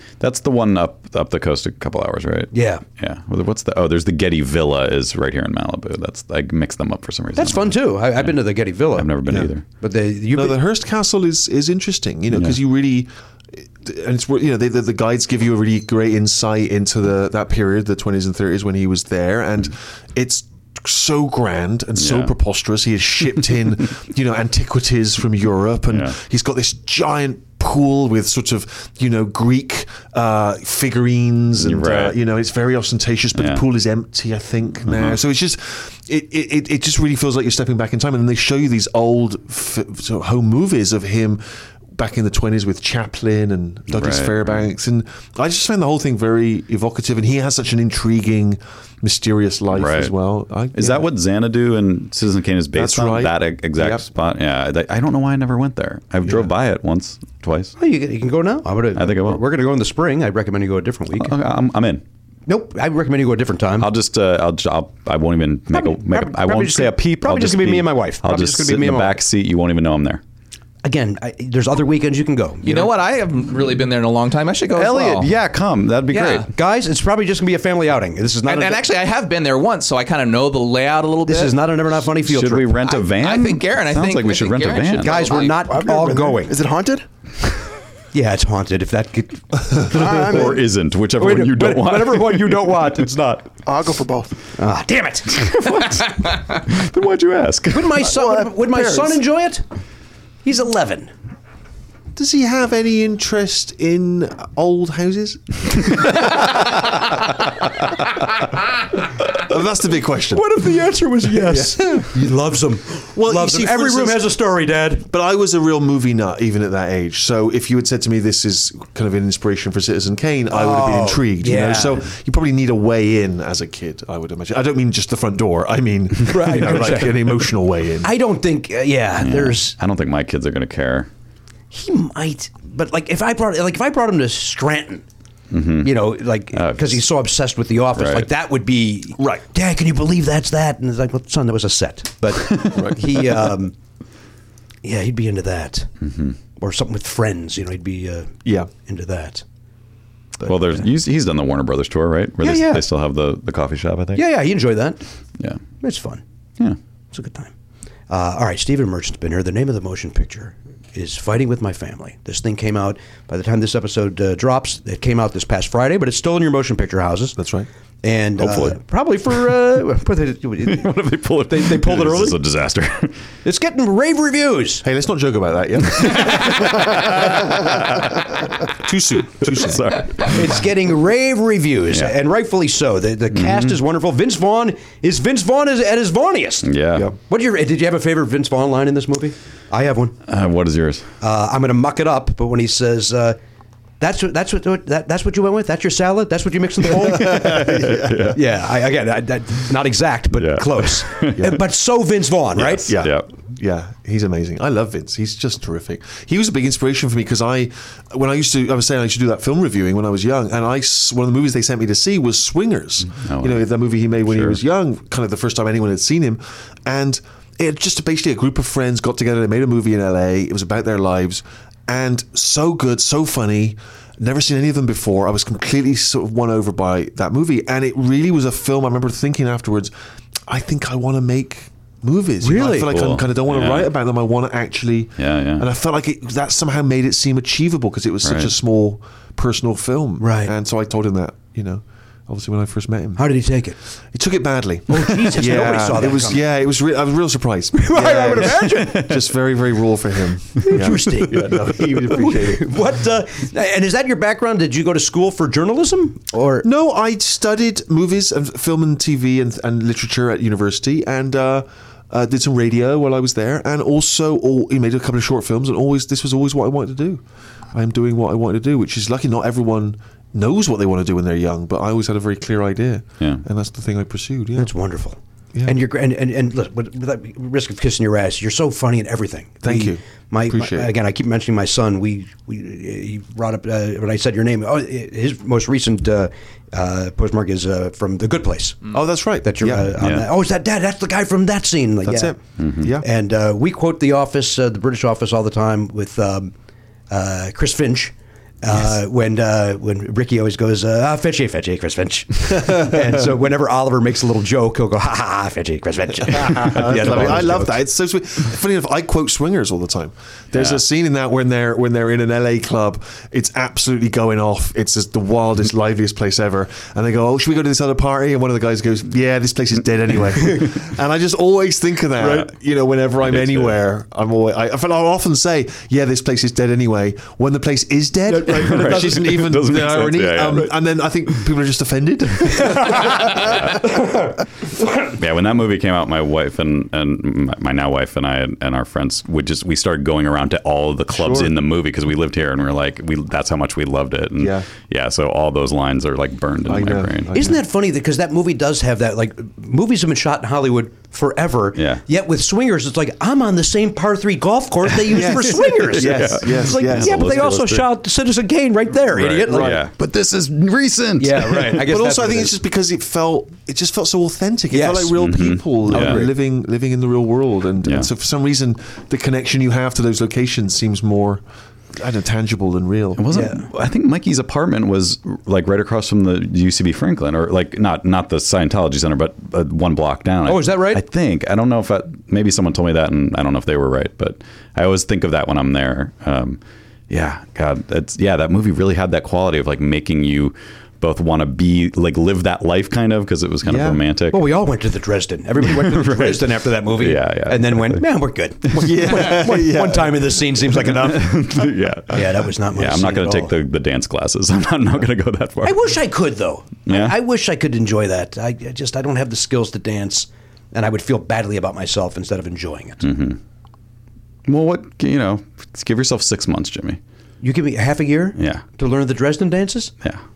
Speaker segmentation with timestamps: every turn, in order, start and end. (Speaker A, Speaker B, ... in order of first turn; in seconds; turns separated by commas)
Speaker A: 0.2-8.4, Speaker B: 2.5-2.8, Speaker B: 7.4-9.2, Speaker A: 8.9-9.6, Speaker C: 9.3-9.5, Speaker B: 9.8-10.6, Speaker C: 10.3-51.1, Speaker A: 12.3-12.6, Speaker A: 22.0-22.3, Speaker A: 25.9-26.2, Speaker A: 31.6-32.2, Speaker A: 33.4-33.6, Speaker A: 34.9-35.2, Speaker A: 43.9-44.7, Speaker A: 49.7-50.1, Speaker A: 50.8-57.7, Speaker C: 52.7-54.0, Speaker B: 57.8-61.3, Speaker A: 59.0-59.4, Speaker A: 61.2-62.0, Speaker B: 62.5-63.9, Speaker A: 63.8-70.2, Speaker B: 65.7-69.2, Speaker B: 70.8-72.9, Speaker D: 72.7-75.3, Speaker A: 74.7-76.5, Speaker D: 76.1-76.5, Speaker B: 76.5-78.8, Speaker D: 78.5-81.6, Speaker B: 81.3-83.0, Speaker A: 82.2-85.3, Speaker D: 82.9-85.6, Speaker B: 85.0-86.6, Speaker E: 85.6-87.1, Speaker B: 88.1-90.5, Speaker E: 89.9-90.6, Speaker A: 89.9-93.5, Speaker B: 91.2-93.3, Speaker E: 93.7-94.3, Speaker B: 94.6-95.5, Speaker A: 95.3-98.1, Speaker B: 97.7-99.6, Speaker E: 98.0-99.2, Speaker B: 100.4-101.1, Speaker C: 102.2-106.7, Speaker C: 109.3-110.5, Speaker B: 110.3-115.1, Speaker C: 111.4-112.1, Speaker C: 113.2-114.2, Speaker C: 115.1-128.1, Speaker B: 120.5-122.1, Speaker B: 126.2-127.3, Speaker B: 128.0-129.8, Speaker A: 129.2-131.1, Speaker B: 131.7-135.0, Speaker A: 135.5-137.0, Speaker B: 135.8-143.8, Speaker A: 137.9-138.3, Speaker C: 139.2-139.4, Speaker A: 142.3-142.9, Speaker C: 142.7-143.0, Speaker B: 144.8-145.9, Speaker A: 146.0-146.4, Speaker B: 146.6-149.4, Speaker C: 148.4-148.7, Speaker B: 150.4-150.9, Speaker A: 150.5-154.2, Speaker B: 152.4-152.8, Speaker B: 154.2-155.0, Speaker B: 155.8-156.2, Speaker B: 157.1-157.5, Speaker B: 158.1-167.4, Speaker C: 167.4-167.7, Speaker B: 168.0-170.9, Speaker A: 168.4-168.8, Speaker A: 170.6-173.2, Speaker B: 171.5-172.4, Speaker B: 173.4-174.8, Speaker C: 174.8-180.4, Speaker A: 176.0-178.3, Speaker A: 179.4-180.6, Speaker B: 180.2-190.2, Speaker A: 183.3-183.8, Speaker A: 186.6-187.1, Speaker A: 190.3-191.1, Speaker B: 191.2-193.4, Speaker B: 194.0-202.9, Speaker C: 196.9-198.3, Speaker A: 197.3-198.4, Speaker A: 200.4-201.5, Speaker A: 202.6-203.3, Speaker C: 202.8-229.9, Speaker A: 213.1-213.7, Speaker A: 214.2-214.6, Speaker C: 230.5-243.3, Speaker B: 232.4-232.9, Speaker A: 232.9-233.9, Speaker A: 235.2-235.7, Speaker A: 238.2-238.5, Speaker B: 240.2-240.5, Speaker B: 243.2-243.8, Speaker C: 244.1-252.8, Speaker B: 244.9-246.4, Speaker B: 247.7-249.2, Speaker B: 250.6-256.7, Speaker C: 256.6-274.7, Speaker B: 274.6-288.9, Speaker C: 279.6-280.9, Speaker C: 288.9-290.0, Speaker B: 289.4-292.4, Speaker A: 290.0-290.3, Speaker C: 292.0-293.1, Speaker A: 292.6-292.9, Speaker B: 293.0-296.5, Speaker B: 297.1-307.8, Speaker C: 306.3-333.9, Speaker A: 310.5-310.8, Speaker A: 322.2-322.5, Speaker A: 323.3-323.7, Speaker B: 328.3-329.2, Speaker A: 328.5-330.8, Speaker B: 332.6-334.3, Speaker A: 333.3-333.9, Speaker A: 335.2-347.3, Speaker C: 341.1-341.5, Speaker C: 344.4-344.7, Speaker C: 346.7-347.6, Speaker B: 347.3-359.8, Speaker A: 351.8-352.0, Speaker A: 355.1-357.9, Speaker C: 355.1-357.5, Speaker A: 359.1-361.8, Speaker C: 359.5-359.9, Speaker B: 361.2-362.6, Speaker C: 361.8-371.4, Speaker B: 364.7-365.2, Speaker A: 365.2-366.3, Speaker B: 365.9-366.3, Speaker A: 367.8-368.1, Speaker C: 372.0-373.3, Speaker A: 373.2-394.4, Speaker B: 373.3-373.6, Speaker B: 380.5-381.0, Speaker C: 393.7-394.0, Speaker B: 394.3-403.5, Speaker A: 395.6-398.0, Speaker C: 398.7-400.5, Speaker A: 400.7-406.0, Speaker B: 405.6-413.0, Speaker A: 406.9-407.2, Speaker A: 413.0-413.4, Speaker A: 414.5-417.0, Speaker B: 417.4-419.9, Speaker A: 418.4-418.6